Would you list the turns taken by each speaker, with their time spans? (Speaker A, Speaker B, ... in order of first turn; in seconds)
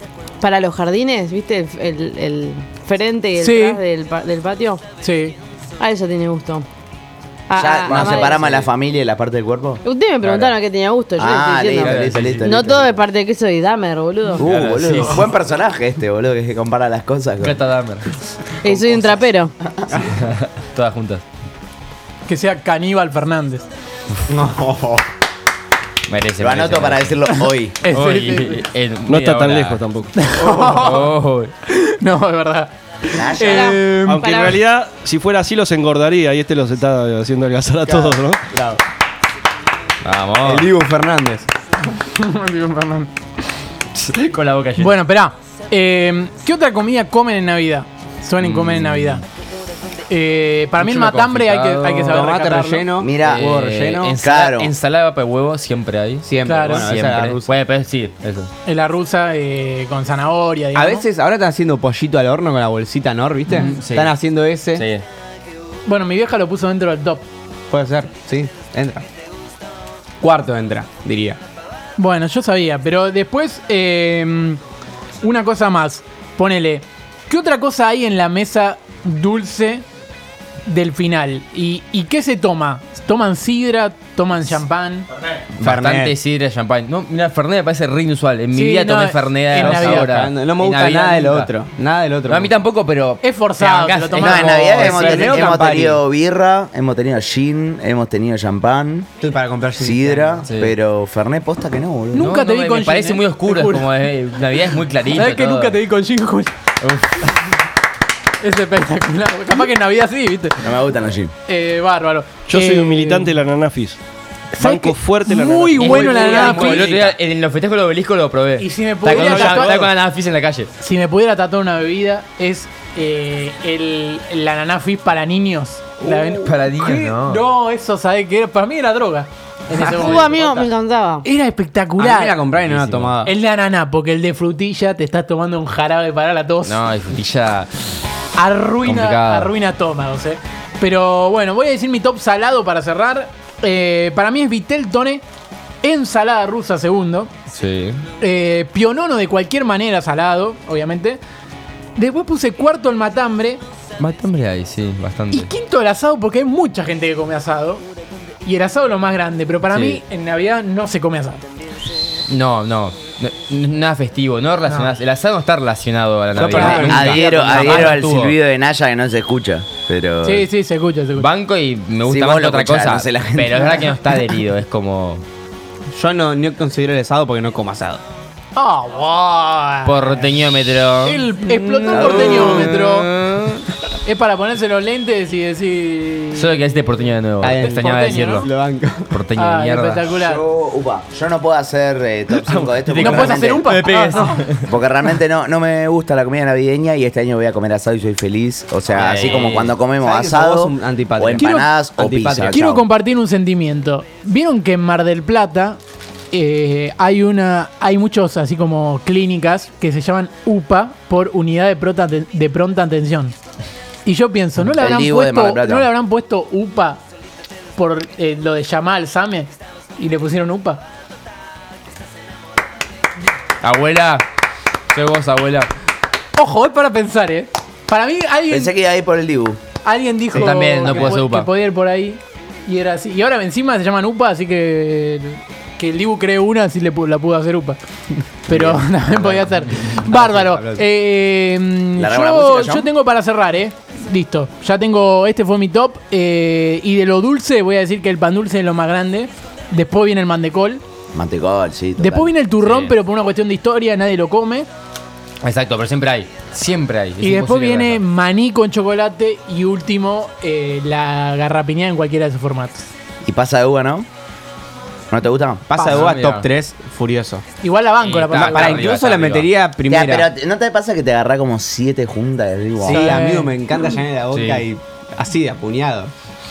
Speaker A: 0.4-4.8, 5.8-6.7, 7.5-8.6, 9.8-14.5, 18.6-19.6, 33.4-34.6, 129.8-131.2
Speaker B: 3.4-3.8, 5.0-5.4, 22.3-23.7, 27.9-28.6, 30.2-31.1, 31.7-34.1, 41.9-43.1, 44.8-49.2, 50.1-52.9, 56.5-56.9, 58.7-61.1, 65.9-67.2, 72.0-74.6, 75.2-79.8, 80.7-85.1, 88.5-90.2, 93.2-95.1, 102.1-104.0, 105.1-106.5, 108.4-110.8, 111.5-113.3, 114.5-117.0, 118.6-119.9, 120.8-130.7, 131.2-132.4, 133.2-136.8, 138.4-145.2, 145.8-147.3, 148.2-151.2, 152.0-153.6, 155.3-157.8, 158.4-161.4, 166.5-168.0, 170.2-171.3, 178.6-180.3, 181.0-183.1, 184.1-186.6, 187.5-188.5, 189.3-190.4, 192.9-194.4, 201.4-201.7, 202.5-205.8, 206.3-213.3, 214.1-217.0, 217.8-220.8, 226.4-228.7, 229.8-237.8, 238.5-250.8, 252.0-254.7, 257.2-262.9, 265.8-266.1, 267.6-268.9, 272.9-273.5
Speaker C: 7.6-9.8, 11.2-13.0, 14.4-17.6, 18.6-20.1, 26.4-27.8, 33.1-33.8, 53.0-53.5, 54.2-54.7, 94.1-99.1, 99.8-102.3, 110.6-111.3, 166.7-170.5, 172.1-174.0, 181.9-182.7, 190.2-193.6, 194.7-202.9, 214.6-215.9, 228.5-229.6, 238.5-238.9, 242.0-242.9, 251.1-252.3, 263.3-264.1, 265.1-265.7, 269.9-273.1
Speaker D: 7.9-8.7, 10.2-10.6, 11.8-12.4, 14.4-15.3, 17.4-18.1, 20.1-21.2, 26.1-27.2, 27.9-29.8, 30.5-31.5, 40.0-40.7, 43.9-44.9, 48.4-49.2, 50.8-52.3, 53.2-58.5, 63.5-64.1, 64.7-65.0, 85.5-91.5, 92.3-95.5, 100.4-100.8, 102.2-105.8, 106.8-107.3, 115.8-120.7, 126.0-127.4, 129.8-130.2, 132.6-133.2, 136.6-137.7, 138.8-139.5, 147.5-148.0, 154.0-155.5, 159.7-160.0, 162.3-168.3, 171.2-175.2, 179.8-181.3, 182.0-183.7, 186.3-188.5, 189.1-190.1, 192.3-194.7, 198.9-199.8, 223.6-224.2, 224.9-225.7, 230.3-231.5, 252.6-252.9, 255.4-258.0, 265.8-266.5, 268.0-269.5, 274.3-274.7
Speaker E: 24.3-25.1, 33.6-34.2, 38.5-38.8, 40.4-41.5, 52.1-54.2, 56.2-57.5, 60.8-64.9, 67.7-69.0, 70.2-71.4, 85.6-86.2, 89.5-92.5, 94.8-96.0, 99.2-100.5, 115.9-117.2, 132.0-133.3, 166.3-167.6, 175.9-178.0, 181.5-182.1, 187.4-189.2, 193.7-194.4, 200.0-202.6, 230.4-231.2, 240.0-240.8, 265.7-267.4, 268.3-270.3, 272.8-276.1
Speaker F: 29.1-30.3, 34.0-38.4, 112.5-114.0, 114.6-116.0, 119.1-119.9